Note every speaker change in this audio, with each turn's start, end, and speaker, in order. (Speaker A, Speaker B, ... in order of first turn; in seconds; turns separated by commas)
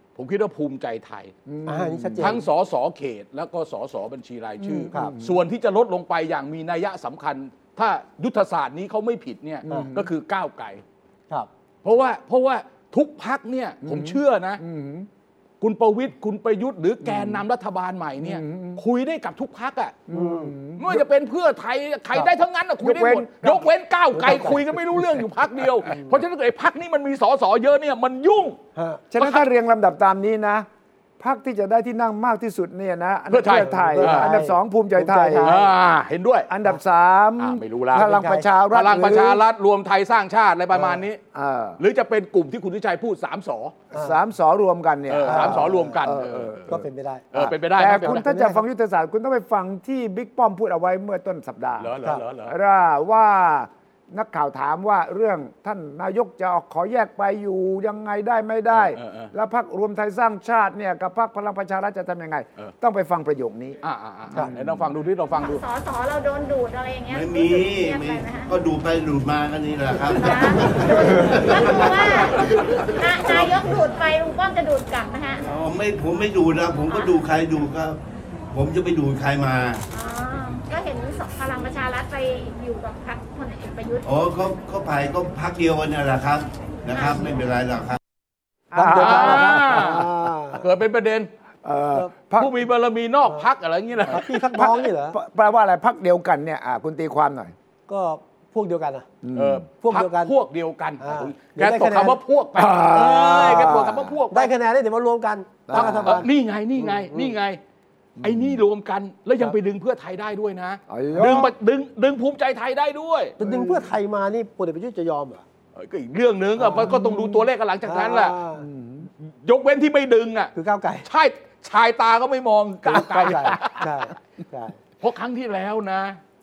Speaker A: 0.1-1.3, Speaker B: 1.4-2.4, Speaker C: 1.6-2.4, Speaker A: 2.2-10.8, Speaker B: 4.6-5.4, Speaker B: 9.7-10.1, Speaker A: 11.8-14.6, Speaker B: 13.8-15.1, Speaker A: 15.6-20.0, Speaker B: 17.0-17.4, Speaker B: 18.2-18.8, Speaker B: 20.1-21.0, Speaker C: 20.1-20.5, Speaker A: 20.8-28.6, Speaker B: 22.8-23.7, Speaker C: 24.1-25.0, Speaker C: 25.9-26.1, Speaker C: 28.8-29.0, Speaker B: 29.1-30.6, Speaker A: 29.2-29.5, Speaker B: 31.2-35.6, Speaker A: 33.3-34.3, Speaker C: 33.5-35.7, Speaker A: 35.4-36.5, Speaker B: 36.5-39.4, Speaker A: 37.4-38.1, Speaker C: 38.0-38.5, Speaker A: 38.7-41.2, Speaker C: 40.7-41.0, Speaker B: 41.3-41.8, Speaker A: 41.8-43.8, Speaker B: 43.9-63.8, Speaker A: 45.1-46.7, Speaker C: 45.2-46.0, Speaker C: 46.7-47.3, Speaker A: 47.3-48.2, Speaker C: 47.9-48.6, Speaker A: 51.8-52.5, Speaker A: 58.7-59.3, Speaker A: 63.8-65.6, Speaker B: 64.3-64.9, Speaker D: 65.3-68.5, Speaker E: 67.1-72.3, Speaker D: 70.1-75.5, Speaker A: 72.4-72.7, Speaker E: 75.4-78.0, Speaker D: 76.9-77.2, Speaker E: 78.5-79.8, Speaker D: 79.9-84.1, Speaker E: 84.0-88.0, Speaker D: 86.9-87.4, Speaker B: 88.7-90.2, Speaker C: 88.7-90.6, Speaker A: 89.0-91.3, Speaker B: 91.6-92.5, Speaker A: 92.3-94.3, Speaker C: 94.1-95.2, Speaker B: 94.5-97.5, Speaker C: 97.9-99.1, Speaker B: 99.2-99.6, Speaker A: 99.3-104.5, Speaker C: 99.8-100.3, Speaker C: 101.0-102.2, Speaker B: 102.5-104.2, Speaker C: 104.3-106.3, Speaker B: 105.7-106.2, Speaker A: 105.7-107.6, Speaker C: 106.8-107.3, Speaker B: 108.2-108.6, Speaker A: 108.2-113.3, Speaker B: 110.9-111.5, Speaker C: 113.4-115.4, Speaker B: 113.4-113.9, Speaker A: 115.7-118.3, Speaker C: 116.6-117.1, Speaker B: 116.7-117.5, Speaker C: 117.8-118.7, Speaker B: 118.5-119.1, Speaker A: 119.2-120.5, Speaker C: 120.5-121.1, Speaker A: 121.0-124.0, Speaker C: 122.8-124.8, Speaker B: 123.3-123.5, Speaker A: 125.0-126.2